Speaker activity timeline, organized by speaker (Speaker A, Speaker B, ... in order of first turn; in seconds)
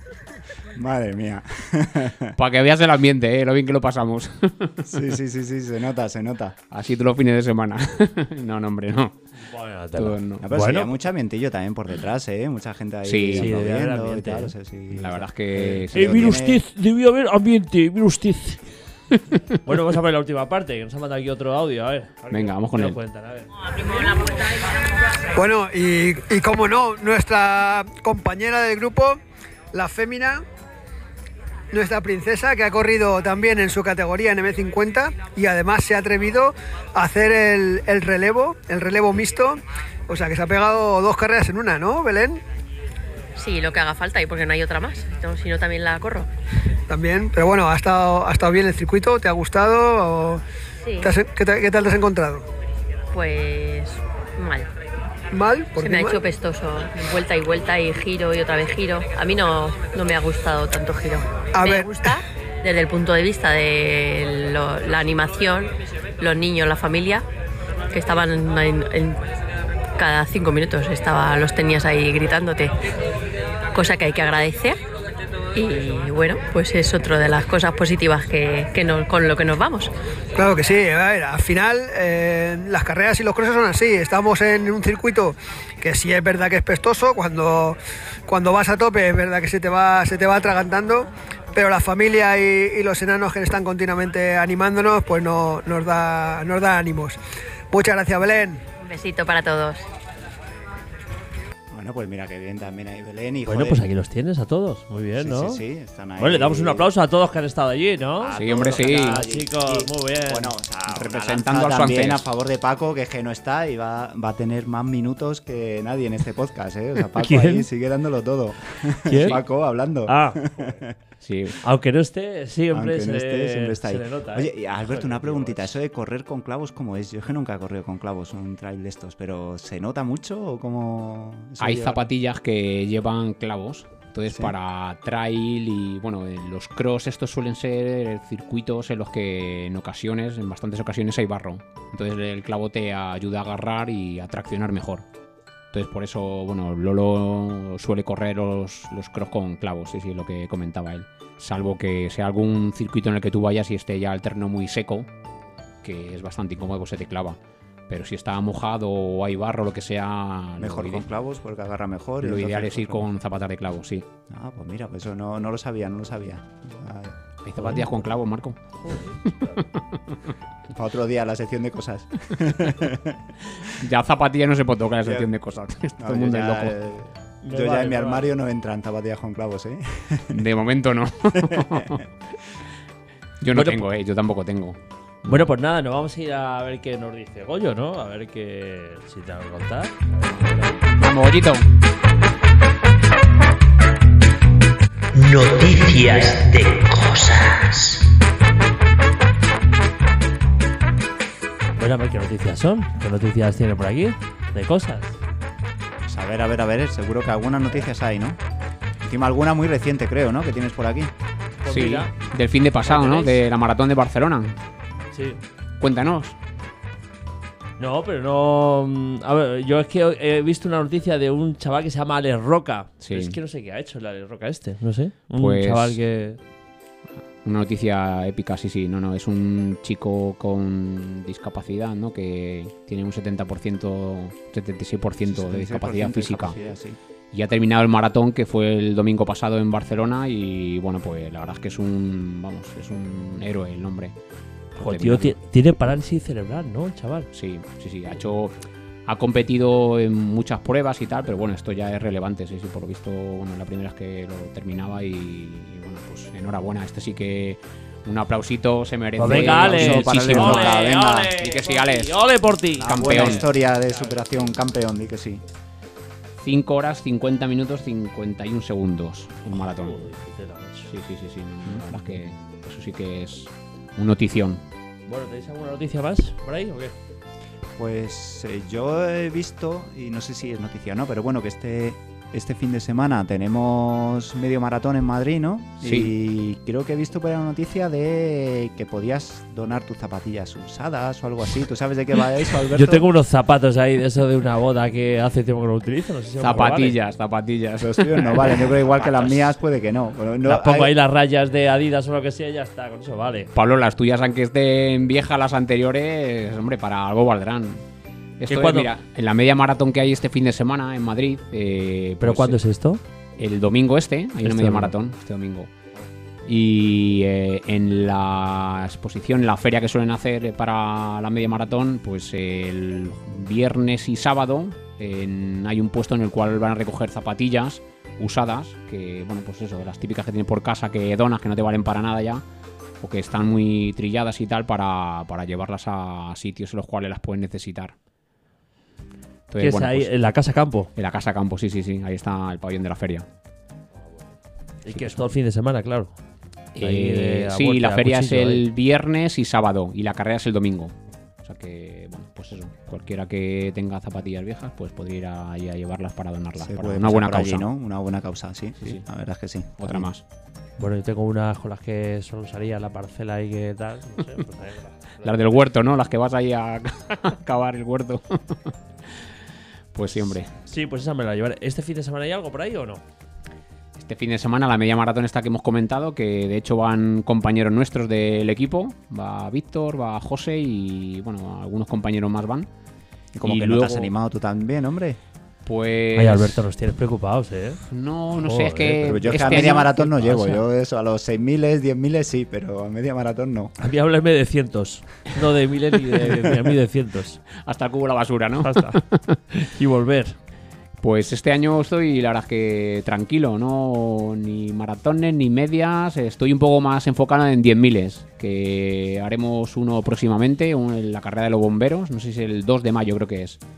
Speaker A: 0.7-2.4, 4.9-6.5, 10.4-16.6, 101.7-103.9, 105.2-106.9, 108.2-120.9, 122.7-132.1, 134.3-134.5, 160.6-163.1, 164.3-167.8, 170.7-173.2, 175.0-175.3, 176.0-180.4, 181.3-181.9, 206.0-208.4, 209.0-211.1, 235.3-237.0, 259.2-261.3, 262.8-265.4, 277.8-293.1, 297.8-300.9, 356.6-360.1, 383.3-385.2, 389.0-393.7
Speaker B: 2.4-5.0, 6.7-9.2, 9.9-10.5, 13.0-13.5, 14.9-16.3, 22.3-23.0, 108.3-109.2, 110.9-112.3, 121.2-121.6, 131.6-145.0, 145.7-155.1, 155.8-157.4, 157.9-161.0, 162.2-164.1, 167.4-168.6, 169.2-169.8, 173.7-176.7, 180.3-182.0, 183.4-185.5, 191.0-191.7, 211.7-214.6, 215.8-216.3, 223.0-223.4, 225.4-226.0, 227.4-236.6, 237.3-244.1, 244.7-245.3, 247.3-248.5, 249.1-262.2, 262.8-263.5, 266.4-270.1, 270.9-274.6, 285.8-286.1, 296.4-299.5, 303.5-307.8, 308.4-312.6, 313.4-315.7, 316.5-332.4, 333.0-337.9, 339.5-340.1, 340.9-343.2, 344.9-345.2, 346.7-357.7, 359.8-360.2, 365.2-368.7, 369.9-370.5, 374.0-382.7, 383.4-384.1, 385.6-386.6, 387.9-390.1, 397.6-399.4, 401.0-413.6
Speaker C: 9.4-10.9, 13.3-14.5, 15.9-18.6, 19.6-23.5, 103.5-105.6, 106.2-110.5, 117.2-117.7, 119.0-119.4, 120.1-120.4, 121.6-125.7, 168.8-169.6, 177.4-178.3, 183.5-183.8, 185.2-190.8, 201.8-205.2, 211.6-212.1, 212.8-213.4, 215.1-215.4, 217.8-226.4, 244.8-247.3, 259.2-264.2, 269.5-270.9, 275.1-276.9, 292.7-296.9, 300.4-303.5, 308.5-308.9, 312.2-313.0, 314.4-314.9, 339.6-340.9, 344.8-346.1, 346.8-348.6, 360.8-365.4, 370.6-373.0, 386.1-387.8, 388.4-390.6, 393.8-397.4, 398.6-399.0, 399.5-400.4
Speaker D: 25.3-29.2, 29.7-30.4, 31.7-42.4, 46.9-50.4, 51.0-52.5, 55.3-56.2, 61.5-62.1, 80.3-97.2, 97.7-98.6
Speaker E: 43.4-46.3, 50.8-51.1, 53.1-54.7, 55.8-67.2, 67.9-69.2, 70.0-72.7, 73.7-74.8, 75.5-79.9, 98.8-99.8
Speaker F: 195.1-198.0